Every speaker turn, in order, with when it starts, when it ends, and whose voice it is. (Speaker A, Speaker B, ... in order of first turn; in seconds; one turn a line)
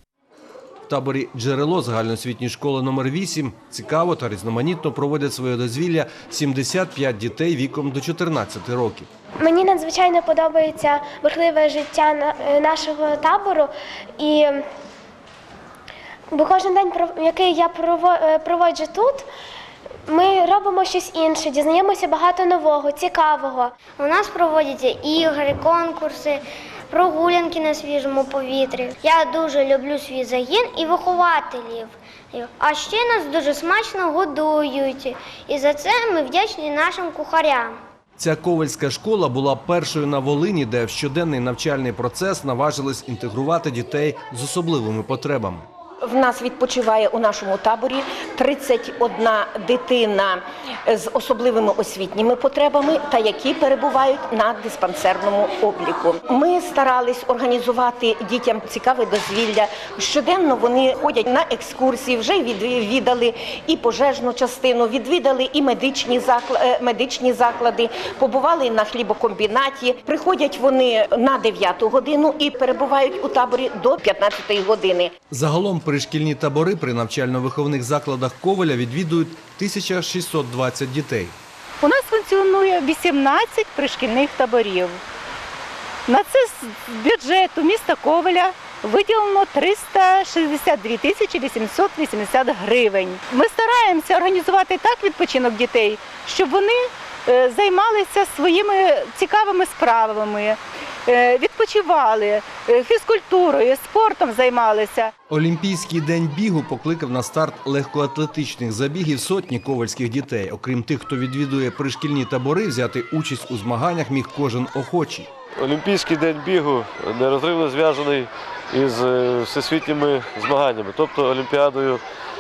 Speaker A: 0.9-9.1
Speaker B: 9.4-14.6
Speaker B: 16.3-19.3
Speaker B: 20.1-23.8
Speaker C: 24.0-37.8
Speaker A: 38.2-45.7
Speaker D: 46.0-75.1
Speaker A: 75.3-81.4
Speaker E: 81.8-85.0
Speaker E: 86.1-105.1
Speaker A: 105.3-115.3
Speaker F: 115.6-122.0